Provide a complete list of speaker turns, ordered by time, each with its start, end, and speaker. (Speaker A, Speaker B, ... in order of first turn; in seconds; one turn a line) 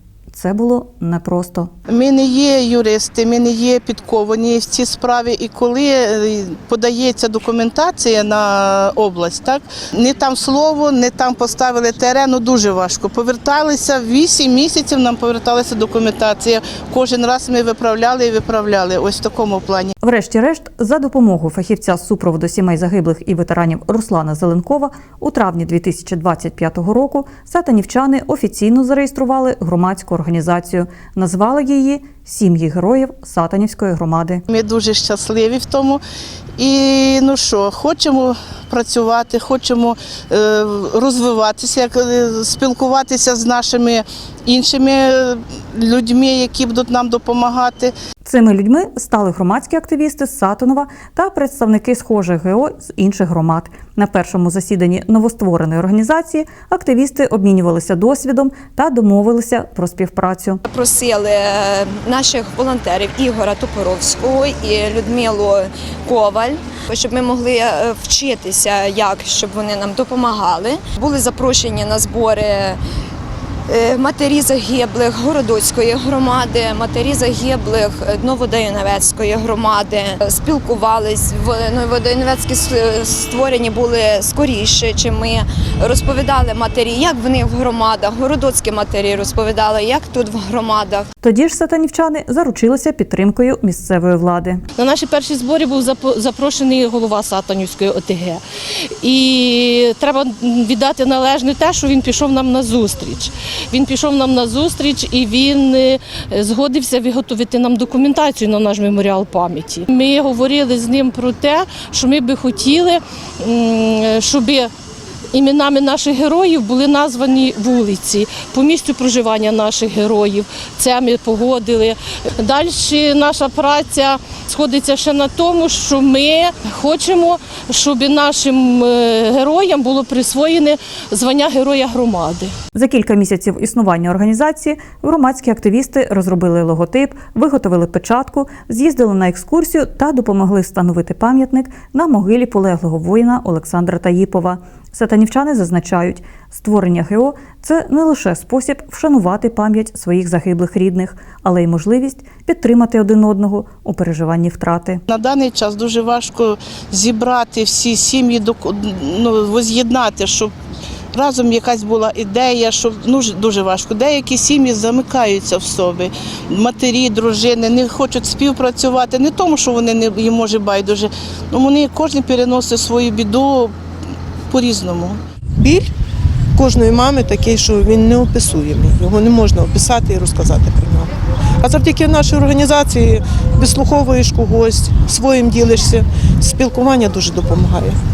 Speaker A: 0.3-1.7
Speaker B: 1.9-19.9
Speaker A: 20.0-34.4
Speaker B: 34.5-36.0
Speaker B: 36.6-47.9
Speaker A: 48.2-60.6
Speaker C: 60.7-72.8
Speaker C: 73.7-91.1
Speaker A: 91.2-94.6
Speaker D: 94.8-98.4
Speaker D: 99.0-114.7
Speaker D: 115.3-132.5
Speaker A: 132.7-155.0
Speaker B: 155.1-160.5
Speaker B: 161.1-173.7
Speaker B: 174.5-175.2
Speaker E: 175.6-175.9
Speaker E: 176.6-188.0